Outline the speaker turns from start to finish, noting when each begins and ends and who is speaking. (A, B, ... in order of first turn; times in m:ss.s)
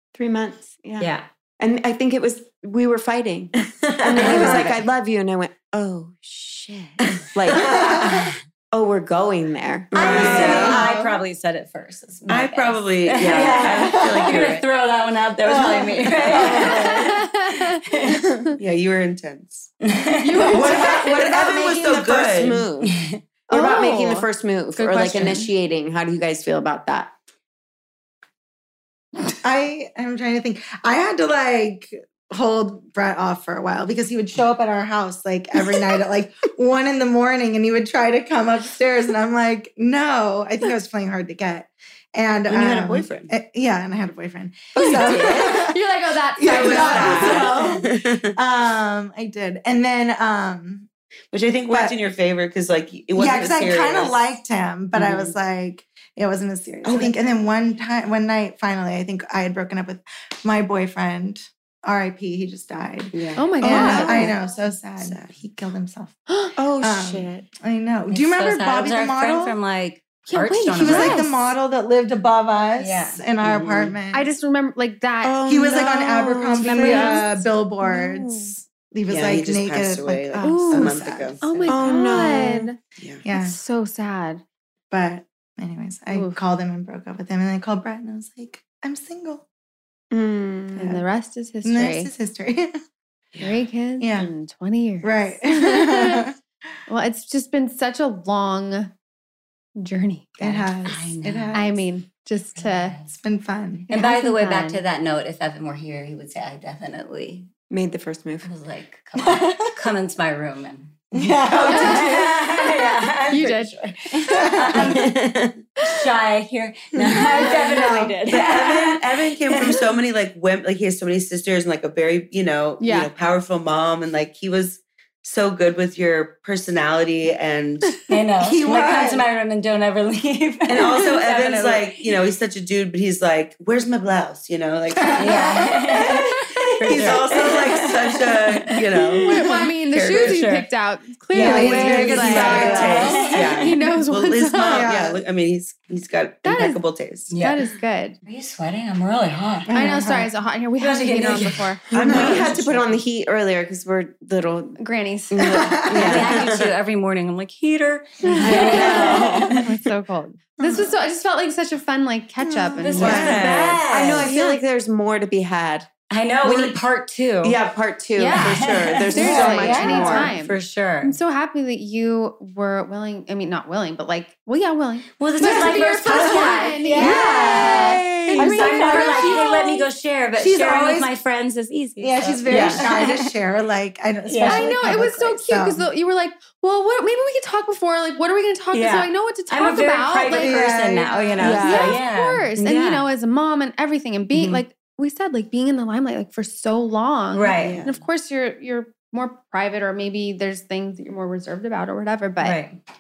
0:00.1-0:08.1 A
0:01.0-0:01.3 B
0:04.0-0:04.9 B
0:04.0-0:04.7 C
0:07.6-0:08.2 D
0:08.0-0:08.3 B
0:08.7-0:10.8 A
0:09.9-0:18.2 B
0:10.0-0:10.9 C
0:10.1-0:11.0 D
0:10.6-0:11.1 E
0:12.3-0:14.7 C
0:13.3-0:14.4 D
0:15.4-0:17.1 D
0:16.5-0:17.8 E
0:18.6-0:19.7 C
0:19.8-0:20.9 B
0:20.2-0:21.2 E
0:20.4-0:22.7 C
0:20.7-0:22.9 A
0:22.9-0:23.2 B
0:23.5-0:27.1 A
0:23.5-0:25.5 E
0:29.4-0:45.8 D
0:42.5-0:43.3 C
0:44.9-0:47.8 E
0:46.4-0:50.9 D
0:46.5-0:48.3 C
0:51.3-0:54.2 C
0:51.7-0:52.0 D
0:53.1-1:06.2 D
0:55.0-0:55.3 B
0:56.8-0:57.1 C
1:03.1-1:04.4 C
1:03.4-1:04.2 E
1:03.6-1:04.4 A
1:05.0-1:05.4 C
1:06.6-1:07.5 A
1:06.8-1:09.6 D
1:08.1-1:11.5 B
1:10.3-1:11.5 E
1:10.8-1:14.3 D
1:12.8-1:14.0 B
1:14.1-1:15.5 E
1:15.2-1:17.1 A
1:15.4-1:21.4 D
1:16.6-1:18.5 E
1:16.7-1:17.2 B
1:19.1-1:21.7 C
1:20.4-1:22.8 E
1:21.7-1:22.7 A
1:23.0-1:23.2 C
1:23.2-1:23.6 D
1:23.3-1:24.4 E
1:24.9-1:29.4 D
1:26.1-1:26.4 E
1:30.1-1:30.9 A
1:30.8-1:32.1 E
1:31.6-1:32.8 D
1:33.4-1:33.6 C
1:33.4-1:36.3 E
1:34.0-1:34.3 D
1:35.0-1:36.4 D
1:36.9-1:38.9 E
1:39.8-1:40.4 E
1:40.4-1:41.8 D
1:40.4-1:41.8 B
1:41.5-1:43.0 E
1:42.6-1:43.1 B
1:43.1-1:43.9 D
1:43.9-1:44.8 E
1:43.9-1:47.5 B
1:47.7-1:48.5 A
1:48.4-2:00.0 B
1:49.2-1:49.7 D
1:51.1-1:52.6 D
1:51.6-1:52.1 E
1:53.3-1:53.8 E
1:54.2-1:55.0 D
1:54.3-1:55.0 E
1:56.9-1:58.2 D
1:58.3-2:08.0 C
2:02.8-2:03.1 E
2:08.1-2:12.0 B
2:08.4-2:09.2 D
2:10.7-2:15.4 C
2:15.0-2:16.2 D
2:15.2-2:20.7 B
2:16.8-2:20.5 C
2:19.2-2:24.9 E
2:21.3-2:27.3 C
2:21.4-2:23.3 D
2:21.4-2:23.8 B
2:24.6-2:25.2 D
2:26.4-2:26.8 E
2:27.3-2:27.6 B
2:27.3-2:28.2 E
2:28.2-2:29.7 B
2:29.7-2:30.3 D
2:29.7-2:31.8 E
2:30.8-2:32.5 B
2:31.9-2:33.0 C
2:31.9-2:34.8 A
2:32.1-2:32.5 D
2:34.8-2:35.6 E
2:35.3-2:36.5 A
2:35.4-2:36.3 D
2:35.9-2:39.6 B
2:36.0-2:36.6 C
2:38.4-2:39.7 D
2:38.4-2:39.6 A
2:38.5-2:43.4 E
2:38.5-2:38.9 C
2:40.6-2:40.9 D
2:42.7-2:44.6 B
2:43.0-2:43.9 C
2:43.0-2:45.9 A
2:43.0-2:43.4 D
2:46.1-2:47.6 B
2:46.4-2:46.8 A
2:47.4-2:50.3 A
2:48.2-2:59.8 E
2:48.3-2:51.2 B
2:49.1-2:50.3 D
2:55.2-3:03.3 B
2:55.4-2:59.6 D
3:00.4-3:01.1 D
3:02.0-3:05.9 D
3:02.5-3:02.8 C
3:04.2-3:04.8 B
3:04.4-3:10.7 E
3:08.7-3:13.1 B
3:10.4-3:11.7 D
3:11.2-3:22.6 E
3:11.4-3:11.9 A
3:11.4-3:12.0 C
3:14.3-3:14.6 B
3:17.3-3:17.8 B
3:17.6-3:18.0 C
3:22.4-3:22.8 B